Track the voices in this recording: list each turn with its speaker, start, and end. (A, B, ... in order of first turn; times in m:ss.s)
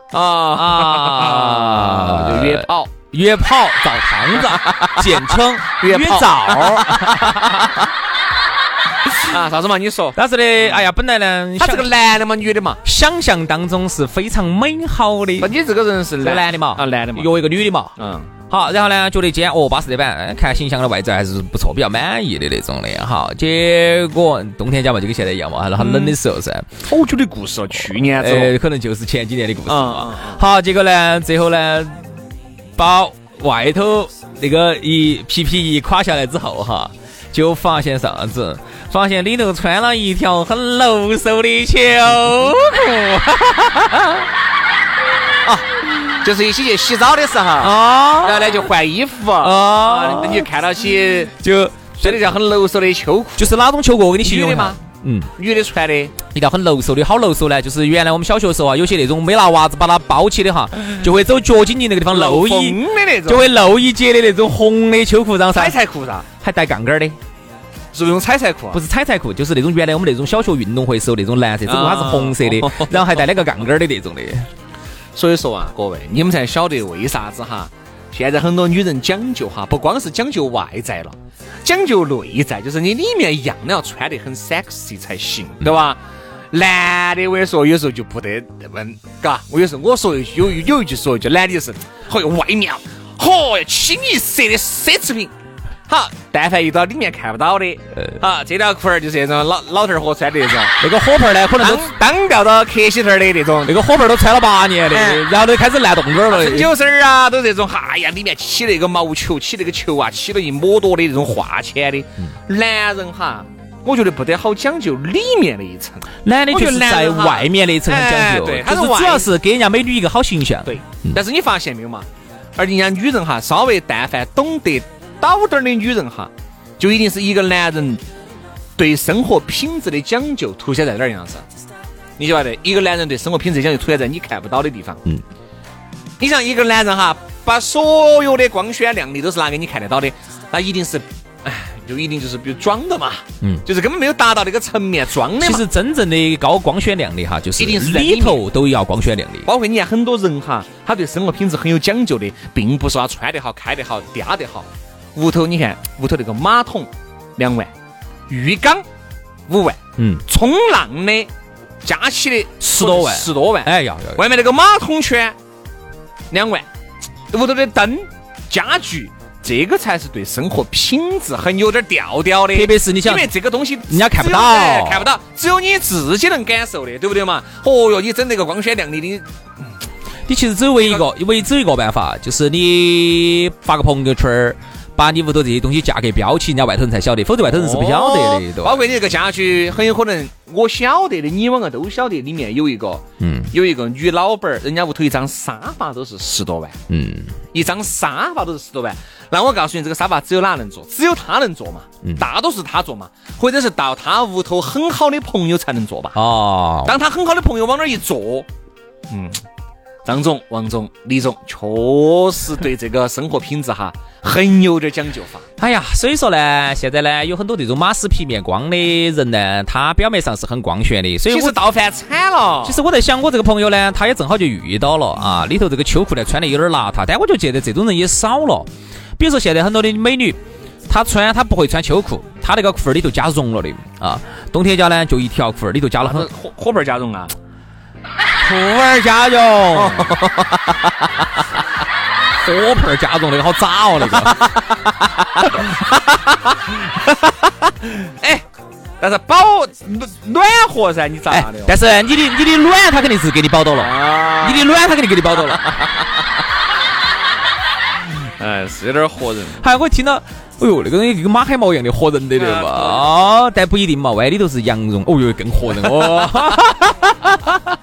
0:00.1-0:02.9 A
0:00.6-0:07.8 B
0:04.3-0:07.4 A
0:09.3-0:10.9 A
0:10.1-0:11.9 B
0:11.6-0:12.8 A
0:12.8-0:15.5 B
0:15.4-0:17.3 A
0:16.2-0:17.9 B
0:18.0-0:18.3 A
0:18.5-0:26.7 B
0:25.8-0:26.2 A
0:26.9-0:28.6 A
0:28.2-0:32.0 B
0:29.7-0:30.4 A
0:32.8-0:44.2 B
0:46.2-0:51.3 A
0:47.6-0:48.7 B
0:49.4-0:50.5 B
0:51.4-0:52.2 B
0:52.0-0:53.5 A
0:53.4-0:55.3 B
0:54.2-0:54.8 A
0:55.4-0:56.1 A
0:56.3-1:05.8 B
1:02.1-1:03.4 A
1:05.5-1:06.3 A
1:06.4-1:07.2 B
1:07.9-1:08.8 A
1:08.7-1:14.5 B
1:11.6-1:13.2 A
1:15.1-1:26.0 A
1:26.5-1:35.3 A
1:35.9-1:40.8 A
1:40.8-1:41.9 B
1:41.6-1:43.7 A
1:43.6-1:46.7 B
1:44.9-1:45.3 A
1:46.3-1:59.3 A
1:56.2-2:01.2 B
2:00.6-2:08.0 A
2:08.8-2:11.4 A
2:12.2-2:15.0 A
2:16.2-2:25.6 A
2:25.4-2:29.5 B
2:27.6-2:28.4 A
2:29.4-2:37.7 A
2:38.3-2:38.8 A
2:39.5-2:41.3 A
2:40.0-2:40.2 B
2:41.8-2:45.3 A
2:42.6-2:44.2 B
2:46.3-2:46.7 A
2:47.3-2:59.2 A
2:52.5-2:53.3 B
2:53.9-2:55.1 B
3:00.3-3:08.8 B
3:00.8-3:01.1 A
3:07.4-3:16.8 A
3:13.2-3:13.5 B
3:16.9-3:17.3 B
3:17.5-3:26.2 A
3:26.1-3:26.9 B
3:26.8-3:28.5 A
3:29.1-3:29.4 A
3:30.0-3:35.4 A
3:35.6-3:41.6 B
3:41.3-3:42.8 A
3:42.6-3:56.3 B
3:56.0-3:57.3 A
3:58.4-4:00.2 B
3:59.7-4:00.7 A
4:02.4-4:04.5 B
4:04.0-4:04.6 A
4:07.8-4:08.4 A
4:09.0-4:11.8 A
4:11.3-4:15.7 B
4:13.8-4:14.7 A
4:15.5-4:15.9 A
4:18.4-4:19.6 A
4:19.6-4:27.6 B
4:22.4-4:23.0 A
4:25.8-4:26.3 A